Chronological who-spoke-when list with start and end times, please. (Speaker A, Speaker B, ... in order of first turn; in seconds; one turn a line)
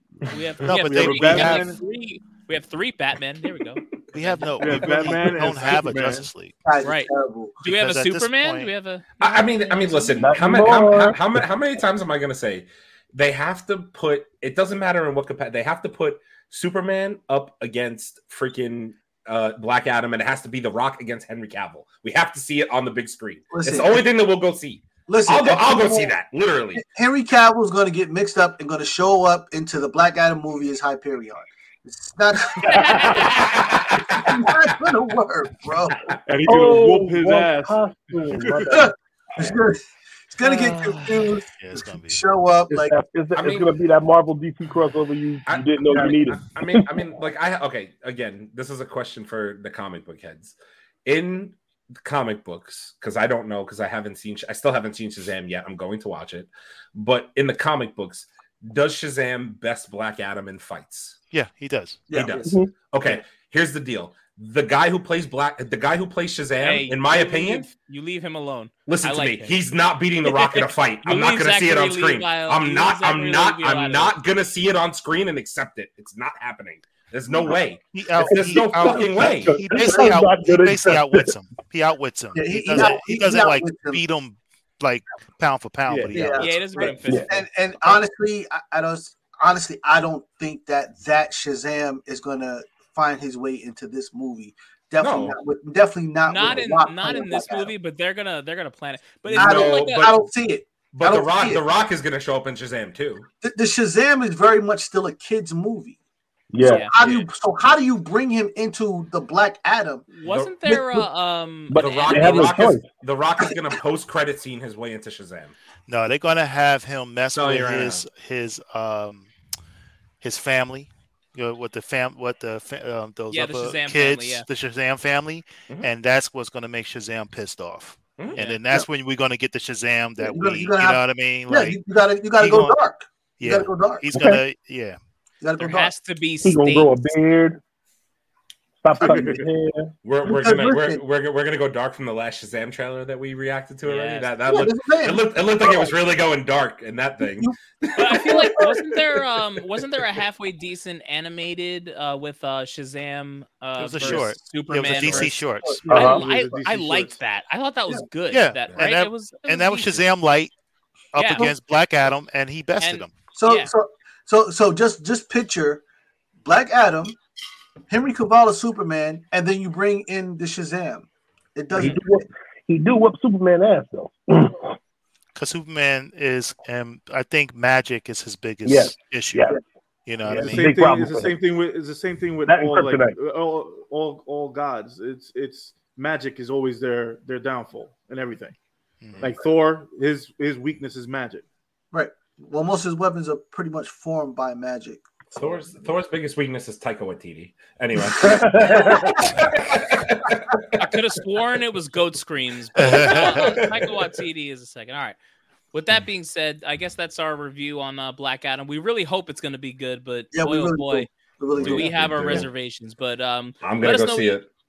Speaker A: 0.3-5.2
Speaker B: 0.6-1.7
Speaker C: 0.8-1.8
Speaker B: 4.1-6.6
Speaker C: 4.6-6.3
Speaker D: 6.6-7.5
Speaker A: 6.8-10.3
Speaker B: 7.7-8.7
Speaker E: 9.2-26.8
Speaker F: 10.2-11.2
Speaker D: 23.5-24.1
Speaker D: 25.1-26.2
Speaker D: 26.7-36.1
Speaker A: 32.6-33.4
Speaker E: 33.1-33.8
Speaker C: 36.2-38.7
Speaker F: 36.5-38.9
Speaker D: 38.8-43.0
Speaker B: 41.6-42.2
Speaker F: 42.7-47.1
Speaker E: 43.3-43.7
Speaker E: 45.5-61.2
Speaker B: 61.3-62.0
Speaker D: 62.1-62.6
Speaker E: 62.1-67.7
Speaker F: 62.4-62.7
Speaker A: 66.6-69.6
Speaker E: 68.9-79.6
Speaker A: 70.3-74.2
Speaker D: 77.3-77.6
Speaker B: 77.9-86.9
Speaker F: 78.3-81.3
Speaker D: 78.9-80.2
Speaker D: 82.3-84.0
Speaker C: 85.9-86.4
Speaker D: 86.1-97.7
Speaker A: 86.3-87.4
Speaker F: 87.1-87.3
Speaker E: 95.0-95.4
Speaker A: 96.2-100.1
Speaker E: 99.3-100.2
Speaker D: 99.3-101.6
Speaker E: 100.9-103.3
Speaker D: 103.4-106.0
Speaker F: 106.5-106.8
Speaker D: 106.6-110.1
Speaker A: 106.6-107.0
Speaker E: 107.0-107.3
Speaker A: 110.1-112.6
Speaker E: 110.2-110.7
Speaker F: 111.7-112.9
Speaker E: 111.7-115.5
Speaker B: 115.9-119.3
Speaker E: 117.3-118.0
Speaker B: 120.2-131.8
Speaker A: 123.3-124.5
Speaker A: 128.3-128.6
Speaker D: 130.2-134.1
Speaker B: 132.3-132.8
Speaker B: 133.4-135.0
Speaker F: 134.1-134.4
Speaker D: 135.4-135.9
Speaker A: 135.6-137.0
Speaker F: 136.4-137.6
Speaker F: 138.8-139.9
Speaker D: 139.0-139.4
Speaker C: 139.0-139.4
Speaker E: 140.0-148.4
Speaker D: 140.2-141.0
Speaker A: 143.8-144.3
Speaker D: 144.5-145.9
Speaker D: 147.2-148.8
Speaker A: 148.0-155.4
Speaker B: 153.8-155.8
Speaker C: 154.0-154.3
Speaker C: 154.8-155.3
Speaker D: 154.9-156.2
Speaker F: 155.8-156.2
Speaker A: 155.9-160.0
Speaker C: 156.0-157.2
Speaker B: 158.3-160.5
Speaker B: 161.1-163.1
Speaker A: 161.2-161.5
Speaker A: 162.8-163.7
Speaker D: 163.3-165.8
Speaker D: 166.4-167.2
Speaker D: 167.9-172.2
Speaker F: 171.7-174.6
Speaker B: 175.3-179.5
Speaker F: 178.6-179.6
Speaker B: 180.1-180.7
Speaker C: 180.2-188.5
Speaker F: 180.3-181.3
Speaker F: 182.5-183.1
Speaker B: 189.0-189.3
Speaker C: 189.2-191.4
Speaker D: 191.9-195.0
Speaker E: 195.3-200.6
Speaker F: 198.4-198.9
Speaker A: 200.8-205.2
Speaker B: 202.8-203.5
Speaker E: 202.9-203.6
Speaker A: 205.7-211.1
Speaker D: 210.3-212.5
Speaker E: 211.5-212.5
Speaker A: 211.7-214.4
Speaker E: 213.6-214.5